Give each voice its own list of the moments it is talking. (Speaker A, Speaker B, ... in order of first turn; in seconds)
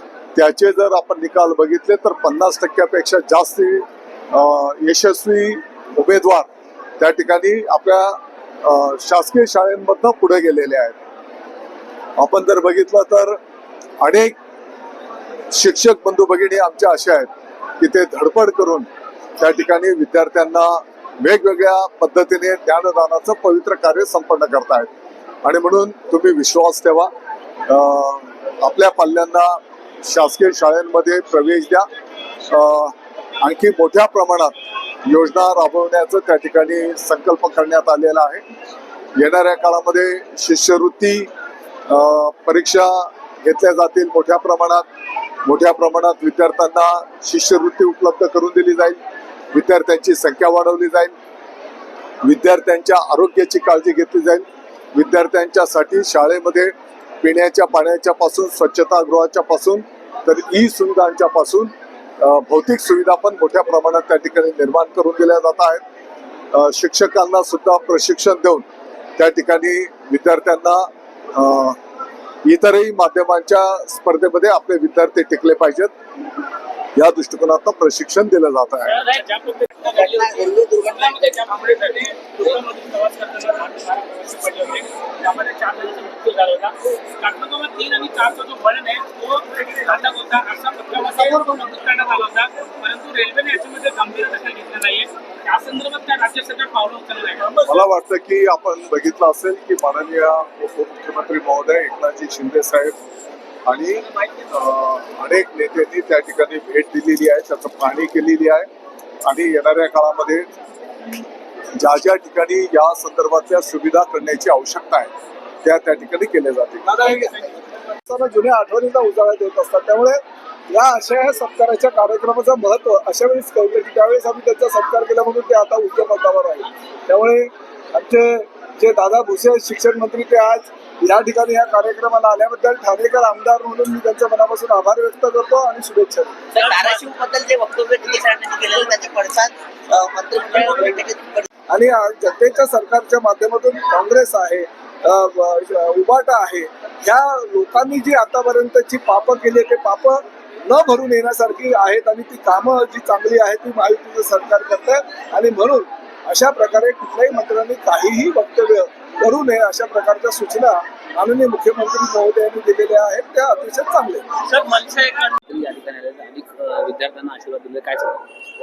Speaker A: 0.4-6.5, 7.0-11.0, 12.2-13.4, 14.0-14.4, 15.5-17.3, 17.8-18.9, 19.4-24.9, 25.4-27.1, 27.7-31.9, 32.5-34.5, 35.1-38.4, 39.2-41.3, 41.9-44.9, 45.5-49.0, 49.5-51.1, 52.2-65.8, 66.5-68.6, 69.2-71.8, 72.5-75.9, 77.0-79.0, 97.7-103.0, 103.7-108.7, 109.3-110.5, 111.8-115.1, 115.6-117.2
Speaker B: 78.9-97.5, 164.5-168.2
Speaker C: 79.8-81.5, 136.5-141.5
Speaker D: 116.9-117.3, 118.1-120.2, 120.7-136.3, 141.7-164.3